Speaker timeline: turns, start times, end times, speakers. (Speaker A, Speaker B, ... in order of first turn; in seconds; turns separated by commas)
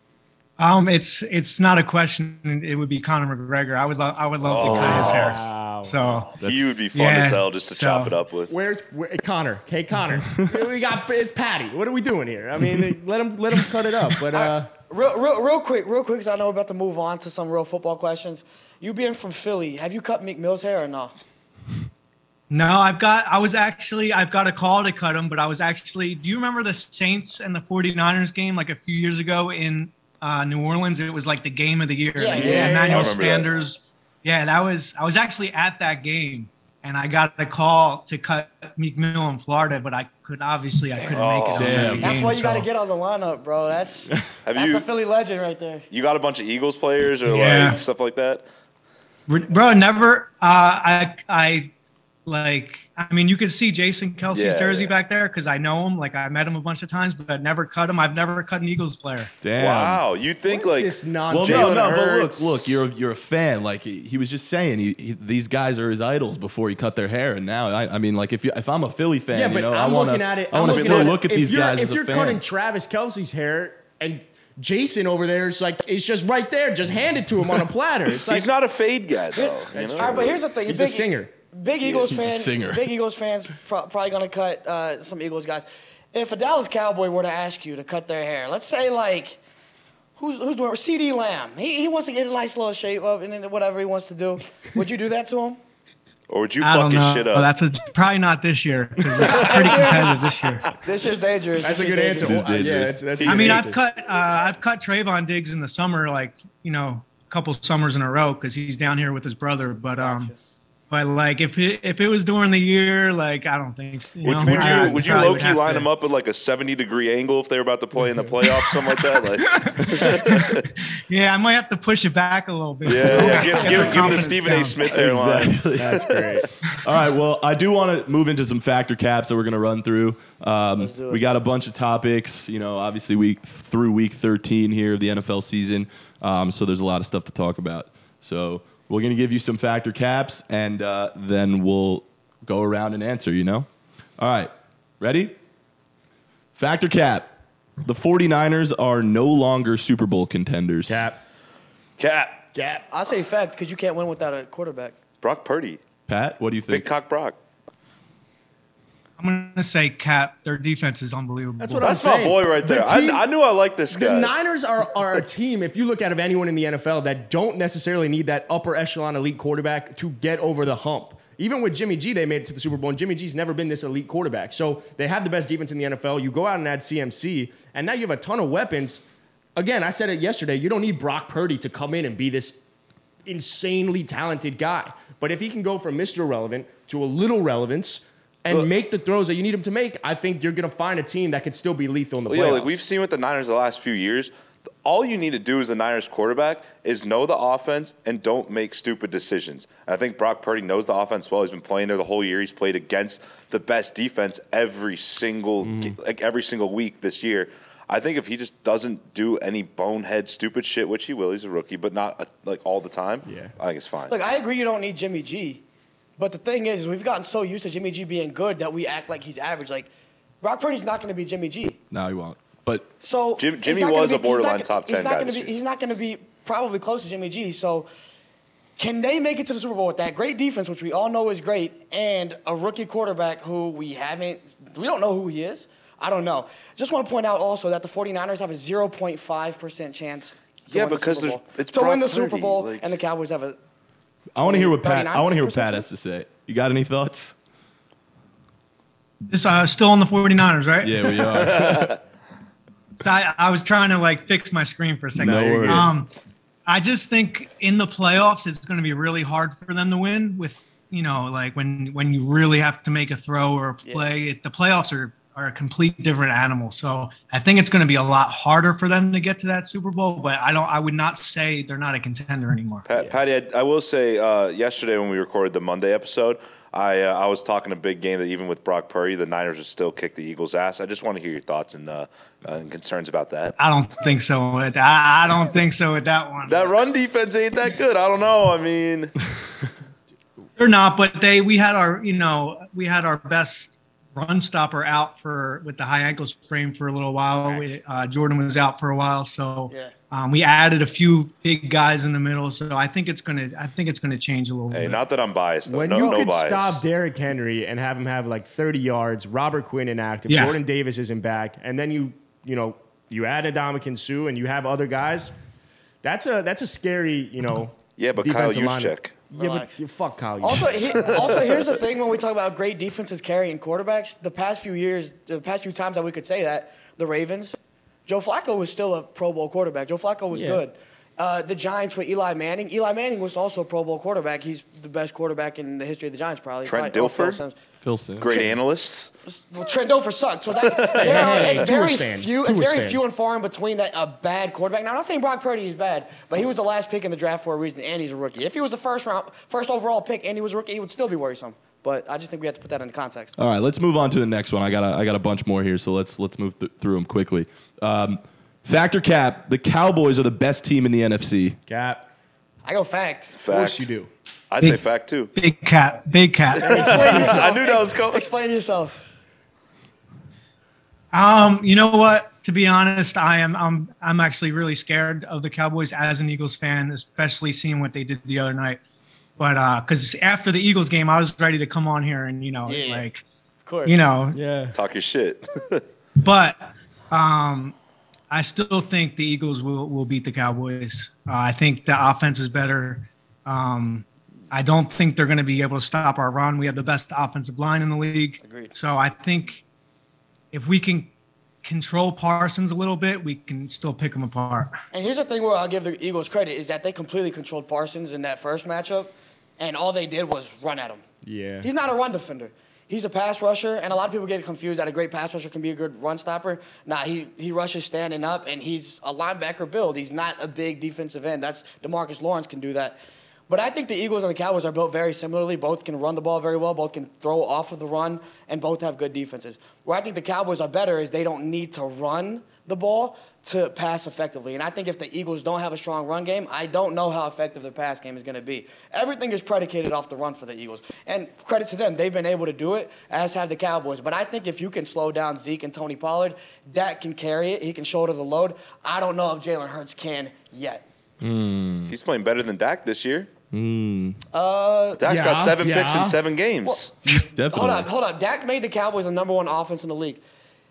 Speaker A: 0.6-6.3, Speaker B: 4.4-5.4, Speaker C: 4.6-6.0, Speaker D: 6.4-6.8, Speaker B: 6.4-8.5, Speaker A: 6.9-8.1, Speaker C: 8.5-14.7, Speaker E: 14.3-21.1, Speaker A: 22.5-42.7, Speaker E: 32.1-33.1, Speaker B: 32.3-33.5, Speaker C: 32.3-33.1, Speaker B: 41.1-42.0, Speaker D: 41.5-42.2, Speaker E: 42.0-45.9, Speaker B: 44.4-44.9, Speaker B: 45.9-48.4, Speaker A: 47.2-47.8, Speaker A: 49.3-51.7, Speaker A: 52.2-59.3, Speaker B: 54.3-54.9, Speaker D: 59.4-60.0, Speaker B: 59.6-62.8, Speaker C: 60.5-62.0, Speaker D: 61.3-72.4, Speaker C: 69.3-78.5, Speaker B: 70.6-71.2, Speaker B: 78.2-80.4, Speaker E: 79.3-89.4, Speaker C: 79.7-81.3, Speaker D: 82.0-82.9, Speaker E: 90.2-95.6, Speaker B: 96.3-97.5, Speaker A: 96.6-100.7, Speaker E: 99.2-100.1, Speaker E: 100.8-102.4, Speaker C: 101.6-103.8, Speaker D: 102.2-103.3, Speaker A: 103.2-110.3, Speaker E: 110.0-110.3, Speaker A: 110.9-115.9, Speaker C: 114.2-115.5, Speaker B: 114.2-120.7, Speaker A: 118.5-124.8, Speaker B: 122.8-126.1, Speaker C: 123.6-124.1, Speaker D: 124.9-126.1, Speaker C: 125.7-126.5, Speaker D: 126.8-143.7, Speaker E: 130.8-131.2, Speaker D: 144.2-145.3, Speaker D: 146.6-151.1, Speaker C: 150.9-151.2, Speaker B: 152.0-152.4, Speaker C: 152.5-152.8, Speaker E: 152.9-154.9, Speaker B: 155.2-155.8, Speaker D: 156.1-156.9, Speaker B: 156.7-157.3, Speaker A: 159.2-161.9, Speaker C: 161.6-163.2, Speaker B: 161.8-164.3, Speaker C: 163.9-179.0, Speaker C: 179.6-182.6, Speaker C: 183.2-192.8, Speaker B: 192.3-194.3, Speaker B: 194.8-214.1, Speaker C: 205.6-206.0, Speaker C: 213.2-213.5, Speaker E: 214.1-215.6, Speaker E: 216.2-221.8, Speaker D: 221.9-222.9, Speaker E: 223.0-227.9, Speaker B: 223.4-225.5, Speaker E: 228.8-243.6, Speaker B: 240.7-242.9, Speaker D: 244.3-247.3, Speaker E: 244.4-245.9, Speaker A: 249.3-251.2, Speaker D: 250.8-251.9, Speaker B: 251.5-252.0, Speaker A: 253.0-256.1, Speaker D: 255.2-255.9, Speaker C: 255.2-255.9, Speaker A: 256.6-272.9, Speaker B: 272.9-283.6, Speaker C: 272.9-273.2, Speaker A: 283.6-286.8, Speaker B: 286.5-289.1, Speaker A: 290.6-305.0, Speaker E: 297.4-297.7, Speaker B: 304.7-306.8, Speaker C: 305.6-315.3, Speaker A: 310.3-310.6, Speaker C: 316.0-321.4, Speaker B: 318.0-319.2, Speaker E: 319.4-319.8, Speaker E: 320.4-337.5, Speaker B: 321.1-321.7, Speaker C: 330.3-330.6, Speaker B: 336.6-337.4, Speaker D: 337.8-338.5, Speaker B: 338.2-339.1, Speaker E: 338.2-338.5, Speaker E: 339.2-353.3, Speaker B: 340.5-341.6, Speaker C: 340.9-343.0, Speaker D: 353.4-361.6, Speaker C: 361.7-362.0, Speaker E: 362.6-363.4, Speaker B: 363.4-363.9, Speaker C: 363.4-364.1, Speaker B: 364.5-365.3, Speaker A: 365.3-366.9, Speaker B: 366.6-368.3, Speaker E: 366.6-369.0, Speaker C: 366.6-367.5, Speaker A: 371.1-378.8, Speaker A: 379.4-383.2, Speaker E: 382.7-383.1, Speaker E: 383.6-384.0, Speaker A: 383.8-384.4, Speaker C: 384.3-384.8, Speaker B: 384.7-385.8, Speaker A: 386.2-387.8, Speaker A: 388.3-399.6, Speaker E: 398.4-398.7, Speaker A: 400.5-401.1, Speaker A: 401.6-404.8, Speaker E: 404.9-411.0, Speaker C: 411.2-411.7, Speaker E: 411.6-423.0, Speaker E: 423.5-450.8, Speaker D: 451.2-451.9, Speaker B: 451.9-453.3, Speaker D: 453.5-454.2, Speaker E: 454.3-455.0, Speaker B: 455.0-456.9, Speaker C: 455.1-456.2, Speaker E: 456.6-460.2, Speaker D: 457.1-457.9